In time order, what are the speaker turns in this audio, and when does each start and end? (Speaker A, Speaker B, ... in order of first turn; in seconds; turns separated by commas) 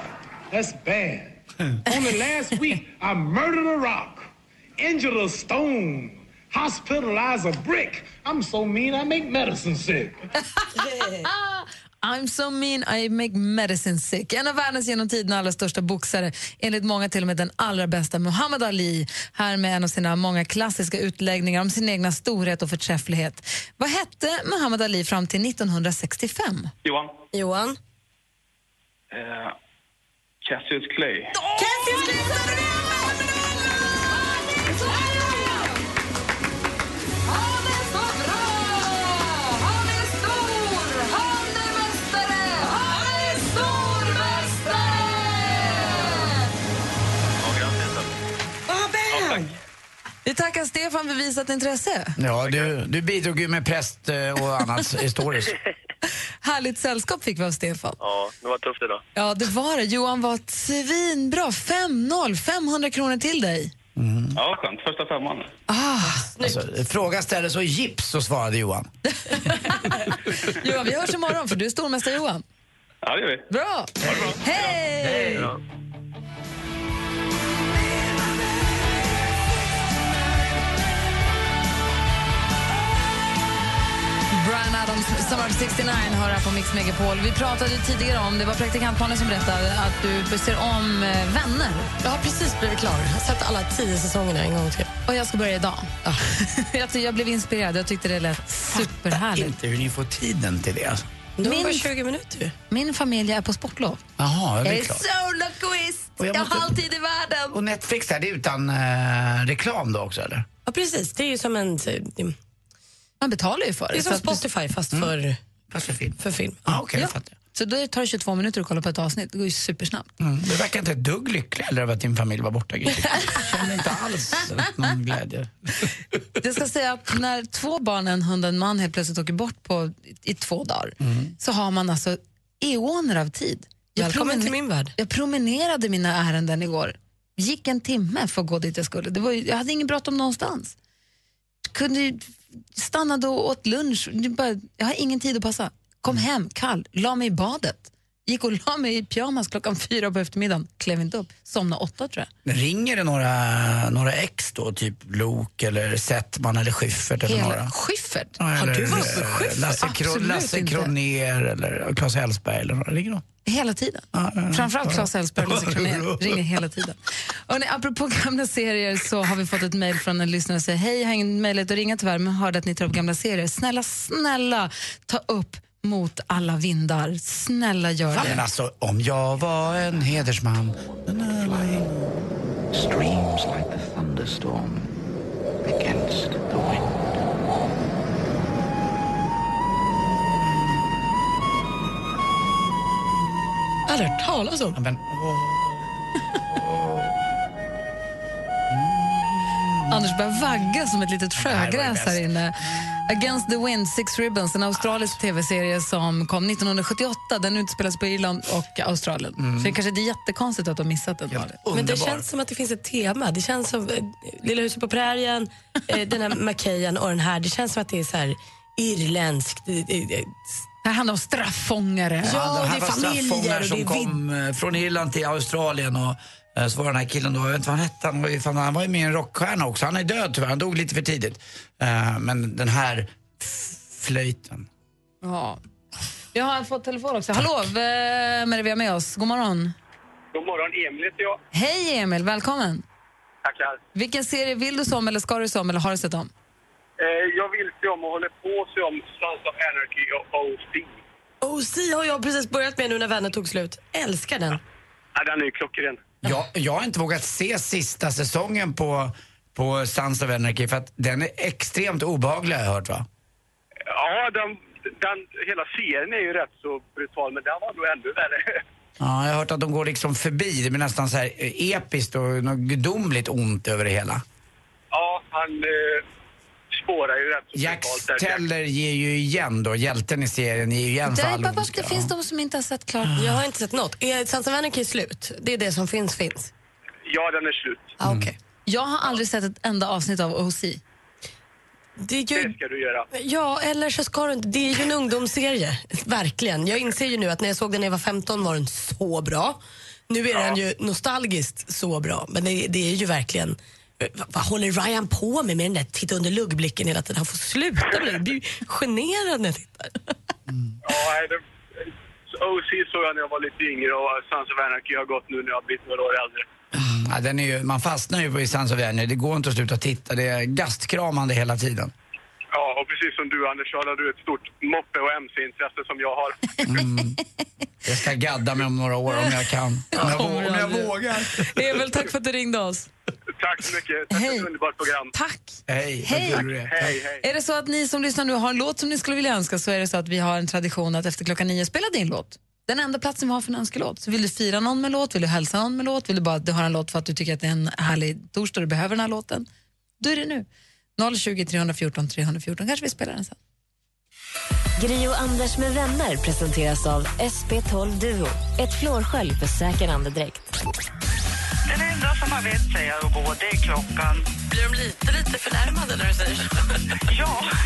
Speaker A: 0.5-10.2, Speaker B: 10.8-11.2, Speaker C: 11.2-26.7, Speaker D: 26.8-27.1, Speaker B: 27.3-27.8, Speaker D: 29.1-29.5, Speaker D: 30.4-31.3, Speaker B: 31.6-32.2, Speaker C: 34.6-35.8, Speaker C: 37.2-46.4, Speaker E: 47.4-48.1, Speaker E: 49.1-49.4, Speaker C: 50.2-52.2, Speaker F: 52.2-55.5, Speaker C: 56.4-58.0, Speaker E: 58.0-59.0, Speaker C: 59.1-63.7, Speaker F: 64.0-64.4, Speaker D: 64.3-65.5, Speaker C: 65.7-66.3, Speaker B: 66.1-66.6, Speaker F: 66.4-68.9, Speaker C: 69.3-72.4, Speaker D: 73.0-73.4, Speaker C: 73.5-75.5, Speaker F: 74.0-74.3, Speaker D: 74.0-74.6, Speaker F: 75.0-75.5, Speaker C: 84.3-91.9, Speaker B: 92.0-94.9, Speaker C: 95.0-99.5, Speaker F: 98.8-101.0, Speaker B: 101.4-102.5, Speaker C: 101.4-101.9, Speaker C: 102.7-104.0, Speaker F: 104.2-105.0, Speaker C: 104.6-107.6, Speaker F: 106.2-106.8, Speaker F: 107.5-110.5, Speaker B: 110.7-112.3, Speaker C: 113.2-114.4, Speaker B: 113.9-115.4, Speaker F: 115.7-117.3, Speaker B: 116.2-116.6, Speaker C: 116.9-120.1, Speaker F: 120.2-125.9, Speaker C: 126.4-140.7, Speaker F: 131.0-131.3, Speaker B: 133.9-134.9, Speaker C: 141.7-152.3, Speaker F: 152.4-157.7, Speaker C: 157.2-158.3, Speaker F: 158.4-163.2, Speaker B: 158.6-159.8, Speaker C: 158.9-159.2, Speaker C: 159.8-160.9, Speaker C: 163.4-178.4, Speaker F: 164.1-166.6, Speaker F: 178.1-181.9, Speaker F: 184.2-184.5, Speaker B: 193.9-194.8, Speaker F: 194.8-195.9, Speaker F: 196.4-197.1, Speaker F: 198.7-199.9, Speaker C: 199.9-211.6, Speaker F: 201.3-202.2, Speaker F: 209.4-209.7, Speaker F: 211.3-212.2, Speaker B: 211.7-220.5, Speaker C: 220.8-222.4, Speaker F: 222.2-234.7, Speaker B: 222.2-224.1, Speaker C: 235.2-235.6, Speaker C: 236.3-239.7, Speaker G: 240.3-241.4, Speaker C: 241.5-242.8, Speaker G: 243.4-243.8, Speaker C: 243.9-246.3, Speaker G: 247.0-251.0, Speaker B: 251.4-254.6, Speaker G: 255.1-256.1, Speaker F: 256.2-263.1, Speaker G: 263.9-268.6, Speaker F: 269.0-274.2, Speaker G: 274.9-276.0, Speaker G: 276.7-278.4, Speaker F: 277.6-282.1, Speaker C: 281.1-283.2, Speaker F: 283.0-283.4, Speaker B: 283.1-286.5, Speaker G: 287.1-287.9, Speaker B: 288.0-288.3, Speaker F: 288.0-288.3, Speaker C: 288.6-290.8, Speaker B: 292.0-292.5, Speaker G: 292.3-293.1, Speaker B: 293.1-310.1, Speaker G: 310.8-311.4, Speaker G: 312.3-316.4, Speaker F: 316.7-321.9, Speaker G: 322.5-326.5, Speaker F: 326.6-327.2, Speaker F: 327.8-331.5, Speaker C: 329.9-332.9, Speaker G: 333.4-335.1, Speaker C: 334.1-334.5, Speaker C: 335.1-336.5, Speaker F: 335.7-336.9, Speaker G: 336.5-337.2, Speaker C: 337.2-349.5, Speaker C: 350.0-353.4, Speaker H: 354.8-360.5, Speaker B: 364.5-366.5